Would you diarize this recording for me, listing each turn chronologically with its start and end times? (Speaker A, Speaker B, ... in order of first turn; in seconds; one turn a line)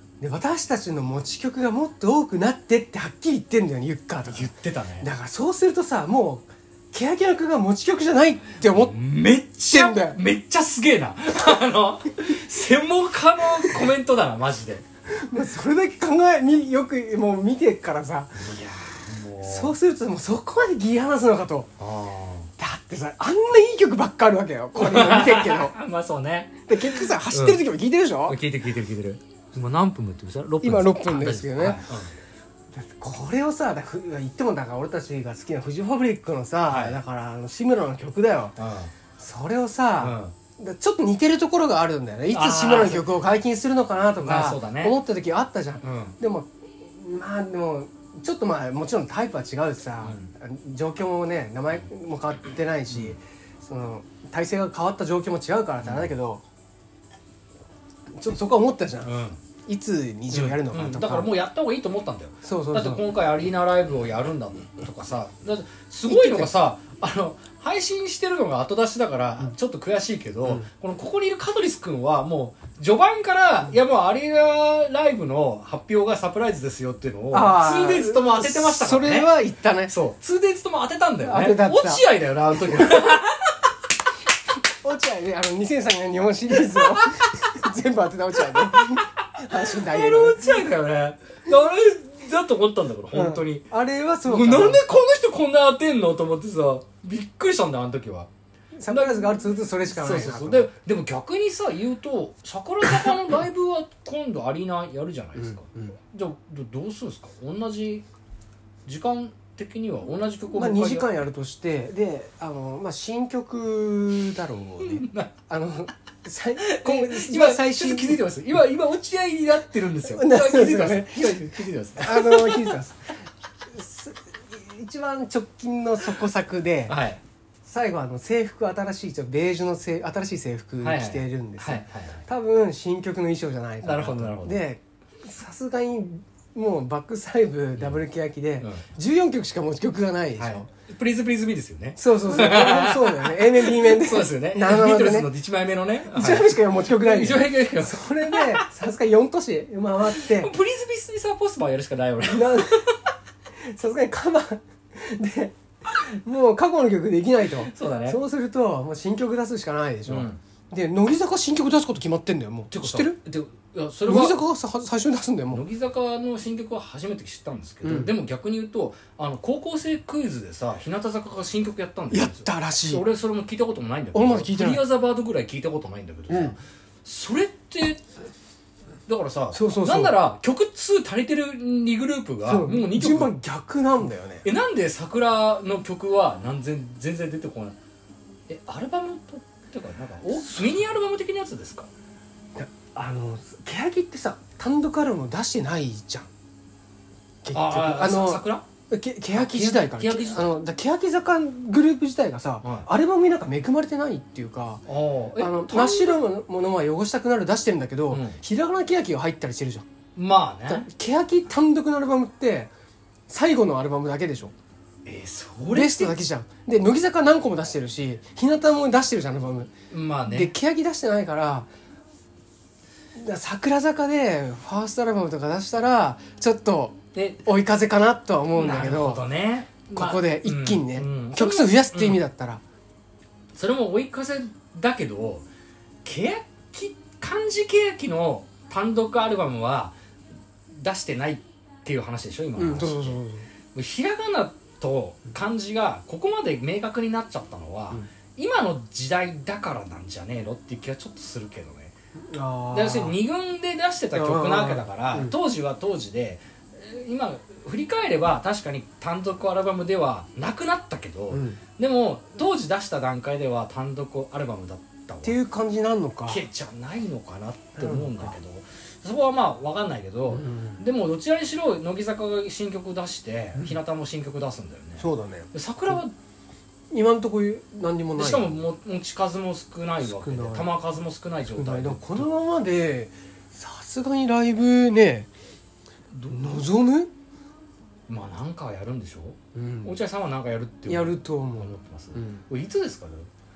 Speaker A: 0.2-8.9
Speaker B: 4.3-5.1
Speaker B: 8.7-14.8
Speaker A: 9.7-10.2
Speaker A: 15.2-18.4
Speaker B: 18.4-19.7
Speaker A: 19.4-21.7
Speaker B: 21.8-22.5
Speaker A: 22.6-25.7
Speaker B: 24.7-27.6
Speaker A: 26.7-28.4
Speaker B: 28.3-32.1
Speaker A: 30.6-31.8
Speaker A: 32.7-38.6
Speaker B: 36.7-37.0
Speaker B: 38.6-38.9
Speaker A: 39.2-56.4
Speaker B: 40.0-40.3
Speaker B: 42.3-43.1
Speaker B: 44.2-45.0
Speaker B: 45.8-46.2
Speaker B: 50.0-50.3
Speaker B: 52.9-53.2
Speaker B: 55.8-56.1
Speaker A: 58.2-59.1
Speaker B: 59.0-59.4
Speaker A: 59.7-61.3
Speaker B: 60.3-79.3
Speaker A: 62.4-63.0
Speaker A: 66.1-66.5
Speaker A: 77.3-79.9
Speaker B: 79.9-83.5
Speaker A: 81.2-83.1
Speaker A: 84.8-90.7
Speaker B: 86.9-87.2
Speaker B: 88.5-93.7
Speaker A: 93.1-94.8
Speaker B: 94.2-98.3
Speaker A: 98.8-100.7
Speaker B: 98.9-108.0
Speaker A: 105.4-106.0
Speaker B: 108.8-111.1
Speaker A: 110.5-118.2
Speaker B: 114.8-115.3
Speaker B: 116.6-122.8
Speaker A: 120.0-123.1
Speaker A: 123.7-127.0
Speaker B: 126.9-127.2
Speaker A: 127.6-140.7
Speaker B: 130.8-132.2
Speaker B: 133.8-134.6
Speaker B: 137.8-138.0
Speaker B: 140.4-148.7
Speaker A: 142.0-145.3
Speaker A: 146.1-150.5
Speaker B: 150.1-152.9
Speaker A: 152.3-152.9
Speaker A: 153.6-163.2
Speaker B: 157.6-158.2
Speaker B: 160.1-160.4
Speaker B: 162.7-164.4
Speaker A: 164.0-165.6
Speaker B: 165.5-178.0
Speaker A: 167.8-168.1
Speaker A: 172.1-173.0
Speaker A: 174.1-174.8
Speaker A: 176.3-176.5
Speaker B: 179.1-183.3
Speaker A: 179.5-180.2
Speaker A: 182.4-184.4
Speaker B: 184.4-187.8
Speaker B: 188.5-191.9
Speaker A: 192.6-196.3
Speaker A: 197.4-204.8
Speaker B: 197.5-198.7
Speaker B: 199.3-200.5
Speaker B: 202.6-202.9
Speaker B: 204.9-206.2
Speaker A: 205.4-209.8
Speaker B: 208.1-208.4
Speaker B: 210.2-210.8
Speaker A: 210.7-212.7
Speaker A: 213.3-214.5
Speaker B: 215.1-216.2
Speaker A: 215.7-219.7
Speaker B: 219.9-220.5
Speaker A: 220.2-221.7
Speaker A: 223.1-229.2
Speaker B: 227.1-227.4
Speaker B: 228.5-232.2
Speaker A: 229.9-232.6
Speaker B: 233.5-235.5
Speaker B: 236.0-239.9
Speaker B: 240.7-243.2
Speaker A: 242.6-243.4
Speaker B: 243.7-251.9
Speaker A: 252.3-253.2
Speaker B: 252.7-265.4
Speaker A: 254.1-255.3
Speaker A: 261.3-261.6
Speaker A: 265.2-266.4
Speaker B: 266.3-276.1
Speaker A: 267.8-268.3
Speaker A: 270.3-270.8
Speaker A: 275.0-276.0
Speaker A: 276.9-278.6
Speaker B: 278.1-282.3
Speaker A: 280.0-280.7
Speaker A: 281.5-285.3
Speaker B: 286.1-286.6
Speaker A: 286.3-287.1
Speaker B: 288.1-293.3
Speaker A: 289.5-289.9
Speaker A: 290.9-292.4